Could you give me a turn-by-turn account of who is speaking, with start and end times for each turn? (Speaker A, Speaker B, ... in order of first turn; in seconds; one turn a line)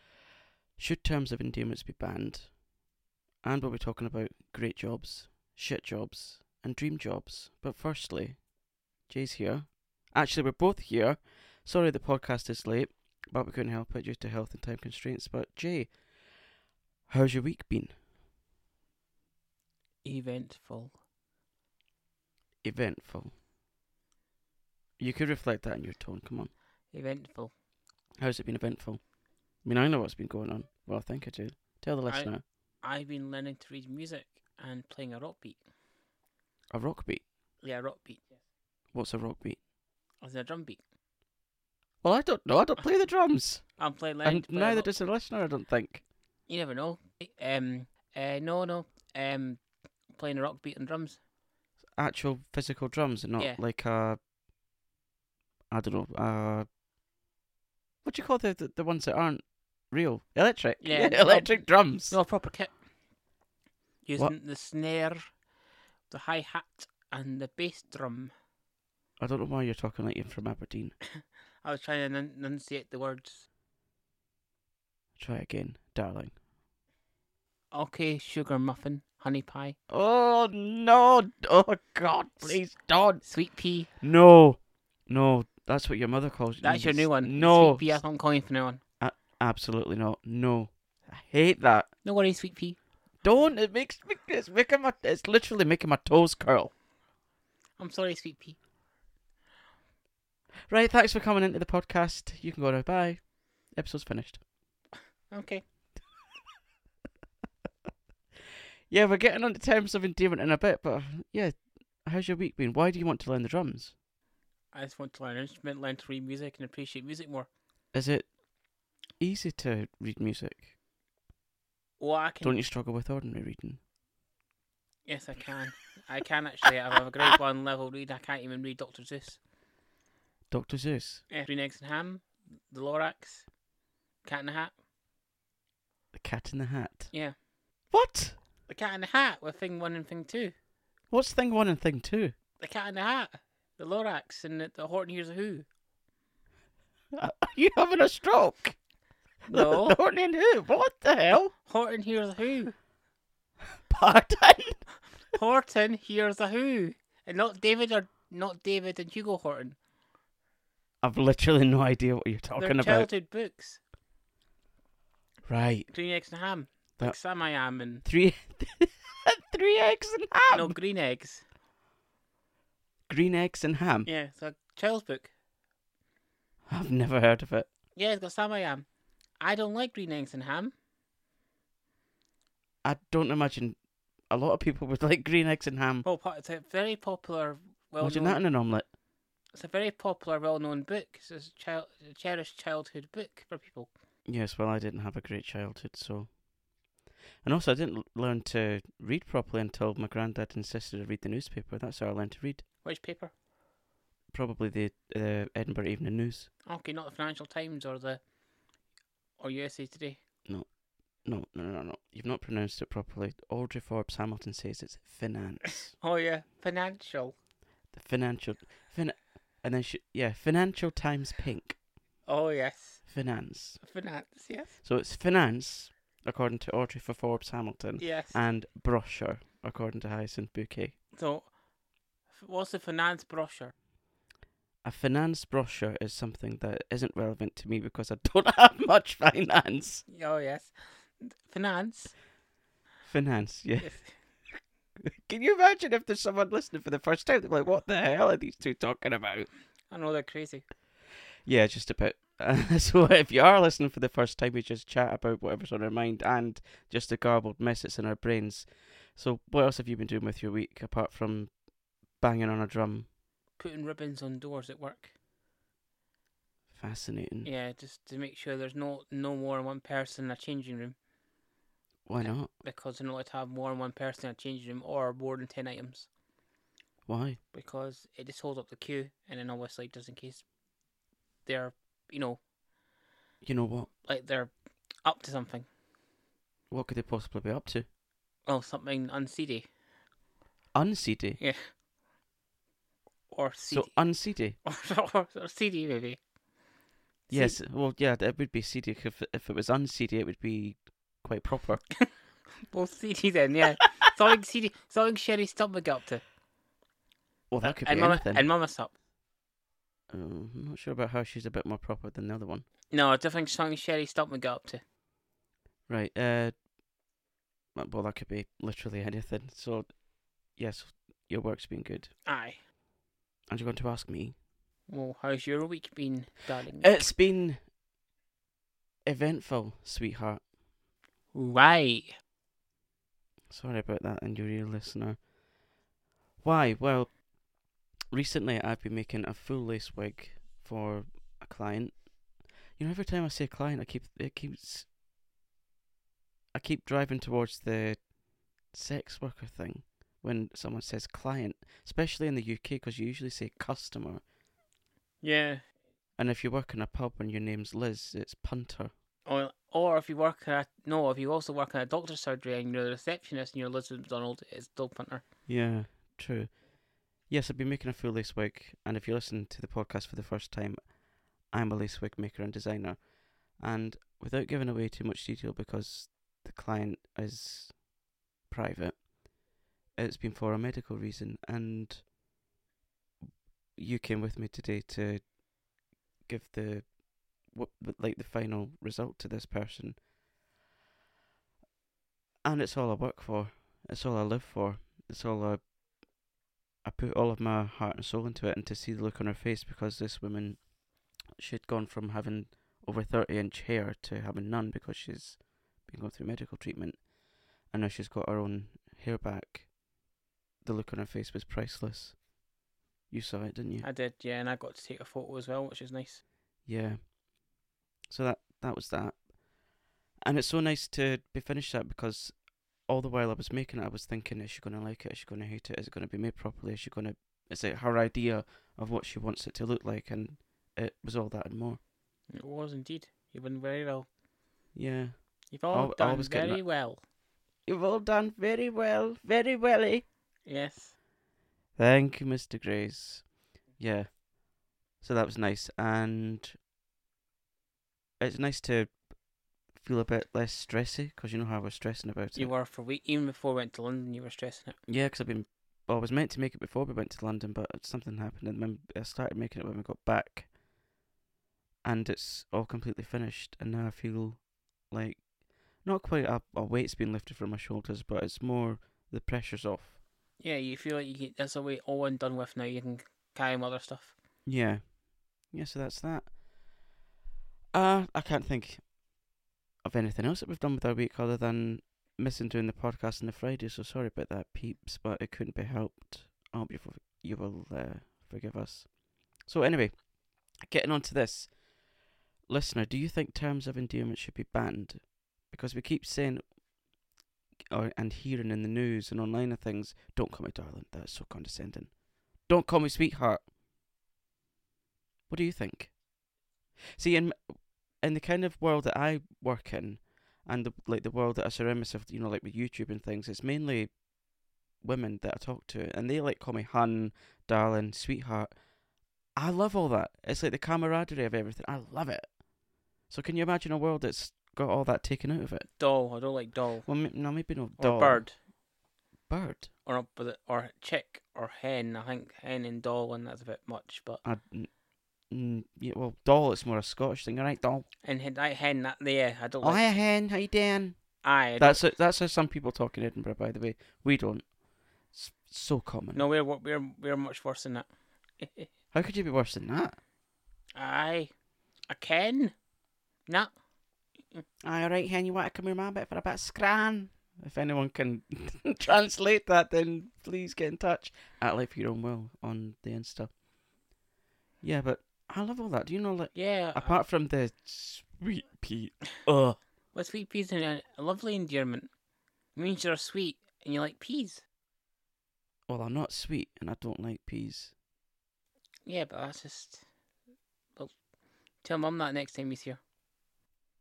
Speaker A: 0.8-2.5
Speaker A: 3.4-8.4
Speaker A: 9.1-15.9
Speaker A: 17.1-17.9
Speaker B: 20.0-20.9
Speaker A: 22.6-23.3
Speaker A: 25.0-26.5
Speaker B: 26.9-27.5
Speaker A: 28.2-29.0
Speaker A: 29.6-32.4
Speaker B: 32.8-35.6
Speaker A: 36.7-37.2
Speaker B: 37.6-38.4
Speaker A: 38.9-39.6
Speaker B: 40.2-40.8
Speaker A: 42.0-43.7
Speaker B: 43.8-44.9
Speaker A: 44.2-46.0
Speaker B: 46.5-49.6
Speaker B: 50.2-51.2
Speaker A: 52.0-54.2
Speaker A: 55.7-56.7
Speaker A: 58.0-62.2
Speaker B: 60.8-62.7
Speaker B: 64.1-65.3
Speaker B: 66.1-68.3
Speaker A: 69.2-71.0
Speaker B: 71.2-73.5
Speaker A: 75.2-76.3
Speaker B: 77.7-79.8
Speaker A: 79.9-83.2
Speaker B: 83.2-83.9
Speaker A: 84.0-88.0
Speaker B: 86.6-88.8
Speaker A: 89.0-91.9
Speaker B: 92.0-92.8
Speaker A: 93.2-96.7
Speaker B: 97.8-98.6
Speaker A: 100.7-104.4
Speaker B: 105.3-105.6
Speaker A: 108.9-113.9
Speaker B: 114.7-117.5
Speaker A: 117.9-118.3
Speaker A: 119.2-120.7
Speaker B: 122.0-122.6
Speaker A: 122.4-123.8
Speaker B: 125.1-129.4
Speaker A: 130.5-131.2
Speaker B: 131.3-133.5
Speaker B: 134.2-134.7
Speaker A: 136.1-137.1
Speaker A: 137.9-138.4
Speaker B: 138.7-140.6
Speaker A: 141.1-142.3
Speaker B: 142.6-145.7
Speaker A: 147.1-148.8
Speaker B: 149.5-150.0
Speaker A: 149.5-151.5
Speaker B: 151.7-152.7
Speaker A: 153.8-154.8
Speaker B: 155.3-159.8
Speaker A: 161.0-163.1
Speaker B: 162.6-163.8
Speaker A: 165.5-165.9
Speaker B: 165.9-168.1
Speaker A: 168.0-170.8
Speaker B: 170.5-171.5
Speaker A: 173.1-174.1
Speaker B: 174.1-175.3
Speaker A: 176.7-177.7
Speaker B: 178.0-178.9
Speaker B: 179.4-180.7
Speaker A: 182.8-183.8
Speaker A: 184.3-186.1
Speaker B: 186.1-188.4
Speaker A: 188.0-188.9
Speaker B: 189.6-193.9
Speaker A: 194.3-196.3
Speaker A: 197.4-202.6
Speaker B: 202.8-203.3
Speaker A: 204.3-206.5
Speaker B: 206.7-208.2
Speaker B: 209.4-210.2
Speaker A: 211.2-215.9
Speaker B: 216.0-217.3
Speaker A: 217.9-221.8
Speaker B: 222.3-223.0
Speaker A: 223.1-223.8
Speaker B: 223.8-224.8
Speaker A: 224.8-231.0
Speaker B: 228.0-228.4
Speaker B: 231.1-231.5
Speaker B: 232.3-233.7
Speaker A: 234.8-240.1
Speaker B: 240.1-242.1
Speaker A: 243.1-244.0
Speaker B: 243.8-244.1
Speaker A: 245.0-249.5
Speaker B: 249.9-250.7
Speaker A: 251.5-261.5
Speaker A: 262.2-263.1
Speaker B: 263.6-265.1
Speaker A: 266.7-267.5
Speaker B: 267.4-271.0
Speaker A: 272.1-272.5
Speaker B: 272.2-276.1
Speaker A: 277.1-277.4
Speaker B: 277.5-280.4
Speaker B: 281.4-282.4
Speaker A: 283.4-283.9
Speaker B: 284.0-285.7
Speaker A: 286.7-287.9
Speaker B: 288.5-289.7
Speaker A: 290.7-291.4
Speaker B: 291.4-291.7
Speaker B: 293.3-293.9
Speaker A: 293.7-294.6
Speaker B: 294.6-296.2
Speaker B: 297.3-297.6
Speaker A: 297.3-301.9
Speaker B: 302.6-306.2
Speaker A: 307.5-308.5
Speaker B: 307.6-308.9
Speaker A: 310.1-312.7
Speaker B: 312.9-314.8
Speaker A: 315.9-316.5
Speaker A: 317.8-319.9
Speaker A: 320.6-322.1
Speaker B: 322.3-322.6
Speaker A: 323.5-324.4
Speaker B: 324.9-327.0
Speaker A: 326.8-327.6
Speaker A: 329.1-330.4
Speaker B: 331.3-332.2
Speaker A: 333.5-335.2
Speaker A: 336.4-337.2
Speaker A: 338.1-342.0
Speaker A: 342.8-344.9
Speaker A: 346.5-348.1
Speaker A: 348.7-354.2
Speaker B: 355.2-355.6
Speaker A: 356.2-358.9
Speaker B: 359.3-365.2
Speaker A: 365.5-366.5
Speaker A: 367.3-370.8
Speaker A: 371.5-373.0
Speaker A: 373.6-377.8
Speaker A: 378.5-379.0
Speaker A: 380.0-382.1
Speaker A: 383.8-385.2
Speaker A: 386.3-386.9
Speaker A: 387.5-390.0
Speaker A: 392.4-395.6
Speaker A: 396.8-400.6
Speaker A: 401.4-407.0
Speaker A: 407.7-409.7
Speaker A: 410.6-412.2
Speaker A: 413.1-413.9
Speaker B: 413.8-416.2
Speaker A: 416.7-417.0
Speaker A: 418.1-419.2
Speaker A: 420.2-422.4
Speaker A: 422.9-431.8
Speaker B: 432.3-434.1
Speaker A: 434.8-435.2
Speaker B: 435.5-437.0
Speaker A: 435.7-436.6
Speaker A: 437.7-440.1
Speaker B: 440.5-440.9
Speaker A: 441.8-443.2
Speaker A: 443.8-444.1
Speaker A: 445.0-446.6
Speaker A: 448.2-448.9
Speaker A: 449.8-452.5
Speaker B: 452.4-454.8
Speaker A: 454.9-460.5
Speaker A: 461.9-465.2
Speaker A: 465.8-470.0
Speaker B: 470.4-474.1
Speaker A: 474.5-474.8
Speaker A: 475.5-476.3
Speaker A: 477.7-478.9
Speaker A: 479.9-488.9
Speaker A: 489.5-489.9
Speaker A: 490.6-491.5
Speaker A: 492.5-496.4
Speaker A: 497.7-501.9
Speaker A: 502.5-503.4
Speaker A: 505.3-505.9
Speaker A: 507.0-507.4
Speaker A: 508.0-513.9
Speaker A: 514.8-518.5
Speaker A: 519.4-522.3
Speaker A: 523.1-525.7
Speaker B: 525.8-526.9
Speaker A: 526.9-528.2
Speaker B: 527.8-528.4
Speaker A: 529.3-529.7
Speaker B: 529.9-534.2
Speaker A: 534.2-534.7
Speaker A: 535.3-537.9
Speaker B: 538.0-539.9
Speaker A: 539.6-541.0
Speaker B: 541.2-541.8
Speaker A: 541.6-544.5
Speaker A: 545.1-546.2
Speaker B: 546.1-547.9
Speaker B: 548.4-548.7
Speaker A: 548.9-550.0
Speaker B: 550.8-551.3
Speaker B: 551.9-552.5
Speaker B: 553.3-553.5
Speaker A: 554.6-563.3
Speaker A: 564.6-569.6
Speaker B: 566.4-567.0
Speaker B: 569.9-571.9
Speaker B: 572.6-574.4
Speaker A: 575.7-577.7
Speaker B: 578.9-579.9
Speaker B: 581.6-582.8